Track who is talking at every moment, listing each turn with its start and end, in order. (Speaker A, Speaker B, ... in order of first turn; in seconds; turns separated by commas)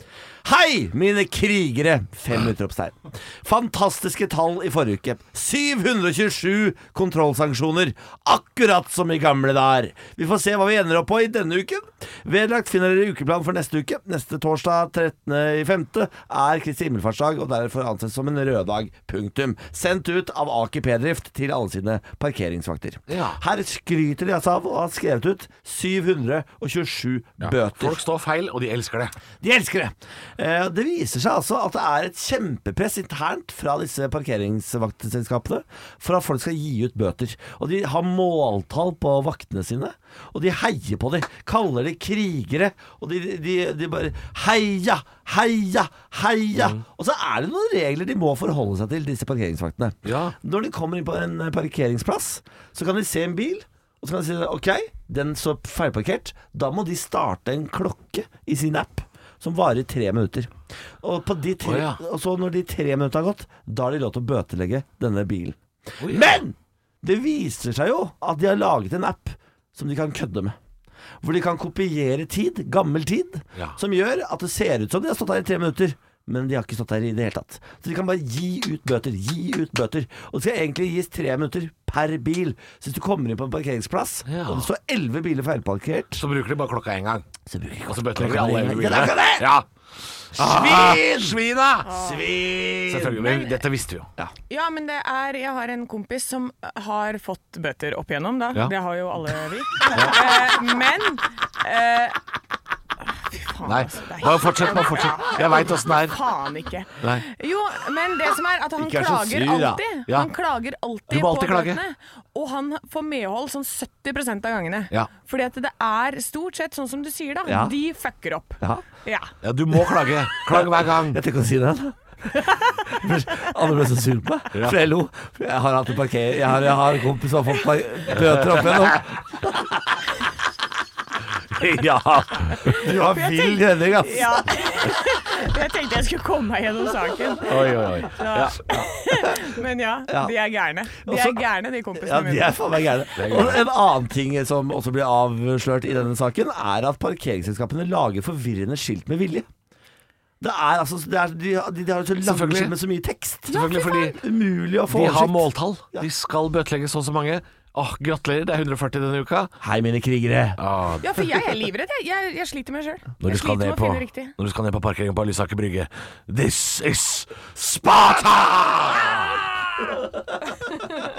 Speaker A: 0.4-28.0, Speaker B: 23.1-23.4, Speaker B: 27.4-29.1, Speaker A: 29.4-70.6, Speaker B: 46.6-46.8, Speaker B: 50.0-50.3, Speaker B: 61.6-62.0, Speaker B: 66.0-66.4, Speaker A: 71.2-86.2, Speaker B: 84.3-84.7, Speaker B: 86.2-87.2, Speaker A: 87.5-89.5, Speaker B: 87.8-89.7, Speaker B: 90.3-91.9, Speaker A: 90.3-93.3, Speaker C: 91.8-92.3, Speaker B: 92.9-94.1, Speaker C: 93.2-93.5, Speaker C: 94.5-102.2, Speaker B: 99.9-100.2, Speaker C: 103.1-119.3, Speaker B: 103.6-106.2, Speaker B: 107.0-107.2, Speaker A: 108.8-109.8, Speaker B: 111.1-111.8, Speaker A: 117.5-117.7, Speaker A: 118.6-118.8, Speaker B: 119.4-121.2, Speaker A: 120.5-122.0, Speaker A: 122.8-130.0, Speaker B: 128.2-129.0, Speaker A: 131.5-134.4, Speaker C: 132.6-142.5, Speaker B: 137.4-138.6, Speaker A: 140.1-140.3, Speaker A: 140.9-141.4, Speaker A: 141.9-149.5, Speaker B: 143.2-143.6, Speaker A: 150.4-156.1, Speaker B: 152.2-152.7, Speaker C: 153.5-154.2, Speaker B: 153.5-154.2, Speaker B: 154.9-159.5, Speaker A: 159.6-160.6, Speaker B: 160.6-161.3, Speaker C: 161.0-164.3, Speaker B: 163.2-169.4